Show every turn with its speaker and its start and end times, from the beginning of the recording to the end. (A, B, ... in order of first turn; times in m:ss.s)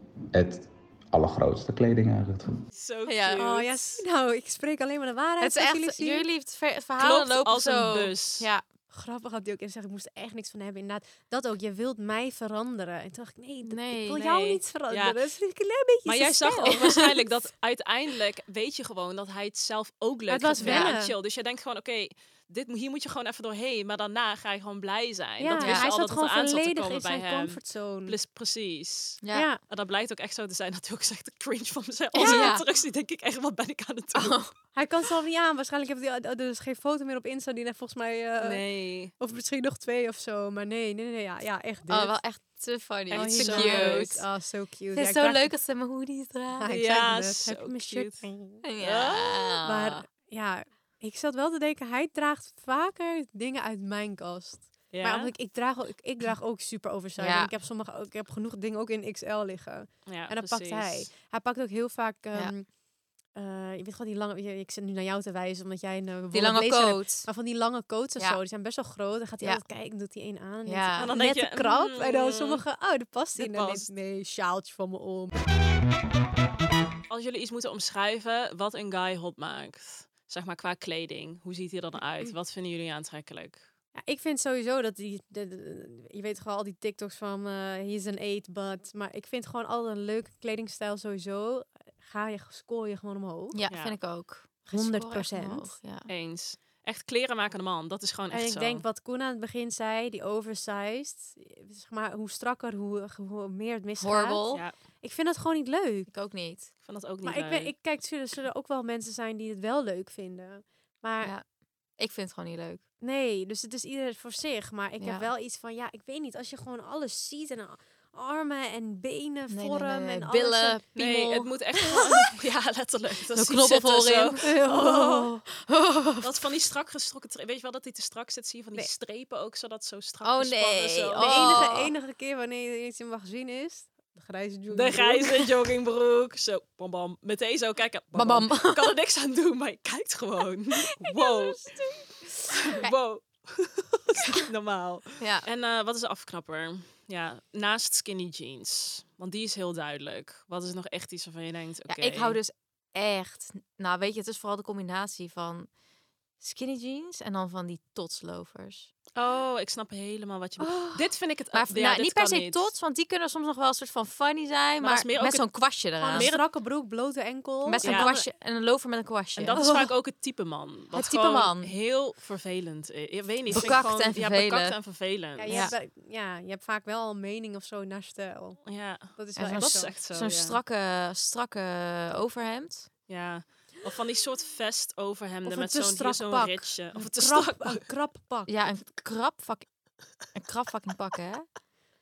0:00.3-0:02.6 A
0:02.7-0:04.0 B
0:03.1-0:03.4 C
0:03.4-0:06.3 D
0:05.4-0:08.6 C
0:07.0-0:08.5 B
0:08.9-0:17.0 D
0:13.7-0:14.2 C
0:14.1-0:15.2 B
0:16.0-0:34.4 B
0:16.6-0:17.0 C
0:20.3-0:21.1 D
0:20.6-0:20.9 C
0:25.4-0:28.2 D
0:25.6-0:25.9 C
0:29.2-0:29.5 C
0:29.3-0:29.6 D
0:32.1-0:32.6 C
0:34.1-0:34.5 C
0:34.7-0:38.6 D
0:38.4-0:39.1 B
0:39.2-0:42.2 D
0:41.9-0:44.2 C
0:43.1-0:44.1 B
0:43.1-0:45.5 D
0:44.9-0:46.7 C
0:46.5-0:48.6 D
0:46.7-0:48.3 B
0:48.6-0:50.0 C
0:48.8-0:49.6 B
0:49.6-1:02.7 D
0:54.9-0:55.3 B
0:57.2-0:57.5 C
1:00.0-1:01.1 B
1:03.3-1:15.3 D
1:06.3-1:07.3 C
1:10.6-1:11.1 C
1:11.0-1:12.6 B
1:13.3-1:13.9 B
1:17.1-1:23.6 B
1:24.0-1:33.6 D
1:33.5-1:36.1 C
1:33.7-1:34.0 B
1:34.7-1:35.7 D
1:36.1-1:38.8 B
1:38.3-1:44.4 D
1:44.0-1:44.6 C
1:45.0-1:46.1 D
1:46.1-1:46.7 C
1:46.8-1:47.7 B
1:47.2-1:51.3 D
1:52.0-1:52.8 C
1:53.0-2:00.8 D
1:55.0-1:55.3 C
1:59.5-2:01.5 C
2:01.0-2:05.3 B
2:03.3-2:04.9 C
2:04.4-2:05.4 D
2:05.6-2:06.3 C
2:06.2-2:11.6 B
2:10.2-2:11.9 C
2:11.2-2:15.5 D
2:14.7-2:21.6 B
2:18.1-2:18.9 C
2:21.0-2:22.9 C
2:22.5-2:32.4 B
2:25.2-2:25.5 C
2:31.9-2:35.7 C
2:36.4-2:38.9 C
2:39.2-2:42.7 B
2:40.6-2:46.3 C
2:44.8-2:45.5 B
2:46.0-2:48.1 D
2:46.1-2:46.4 B
2:47.6-2:49.8 C
2:47.8-2:48.2 B
2:49.4-2:55.7 B
2:49.5-2:49.9 D
2:50.9-2:51.7 C
2:53.5-2:54.8 C
2:55.4-2:58.6 D
2:55.5-2:55.8 C
2:58.6-3:00.6 B
2:59.1-2:59.9 D
2:59.4-3:02.9 C
3:03.1-3:07.8 B
3:05.4-3:08.5 D
3:08.5-3:09.7 C
3:10.3-3:11.4 C